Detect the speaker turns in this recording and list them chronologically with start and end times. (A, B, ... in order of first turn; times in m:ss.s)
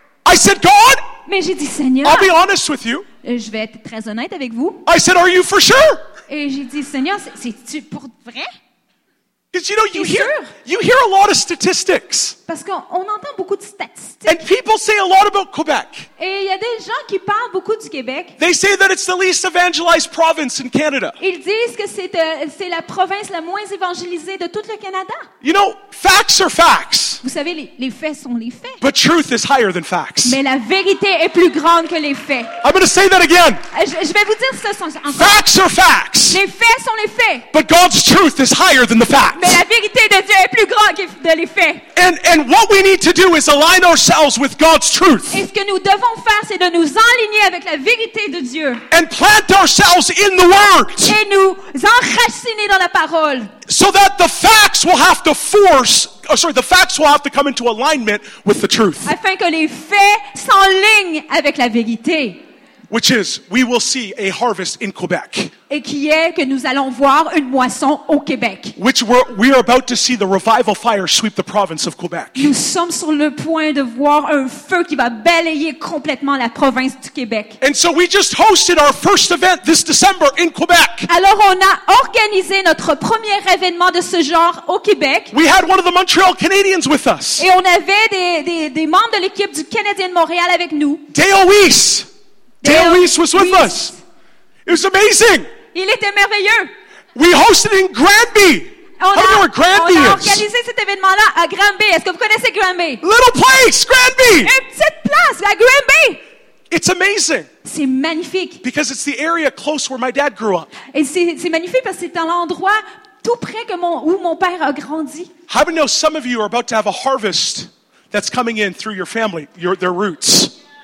0:00.2-0:01.0 A
0:01.2-0:02.3 B
0:02.0-0:03.0 A
0:03.2-0:04.8 B
0:04.8-0:06.0 A
0:06.3-0:08.5 B
0:09.5-0:12.4 A
0:09.9-0:10.5 B
0:12.5-0:14.4 B
0:14.2-0:16.1 A
0:16.2-0:18.4 B
0:18.4-0:21.2 A
0:21.2-0:25.3 B
0:25.4-0:27.2 A
0:27.2-0:28.8 B
0:28.8-0:30.4 A
0:30.2-0:32.5 B
0:32.6-0:33.6 A
0:33.7-0:35.4 B
0:35.1-0:36.4 A
0:36.3-0:37.5 B
0:37.5-0:39.6 A
0:39.3-0:41.8 B
0:41.9-0:45.4 A
0:45.3-0:48.8 B
0:48.9-0:51.2 A
0:51.0-0:53.5 B
0:53.7-0:59.1 A
0:59.0-1:02.4 B
1:02.9-1:05.5 A
1:05.7-1:08.8 B
1:08.8-1:12.5 A
1:12.4-1:17.6 B
1:17.6-1:21.1 A
1:21.1-1:25.3 B
1:25.3-1:27.5 A
1:27.4-1:31.1 B
1:31.1-1:32.1 A
1:32.6-1:34.0 B
1:32.6-1:33.9 A
1:34.6-1:35.5 A
1:35.7-1:36.7 B
1:37.1-1:40.4 A
1:39.0-1:43.0 B
1:43.0-1:44.5 A
1:44.4-1:46.2 B
1:46.7-1:47.5 A
1:47.6-1:48.6 B
1:48.6-1:50.7 A
1:50.9-1:55.3 B
1:55.5-2:00.5 A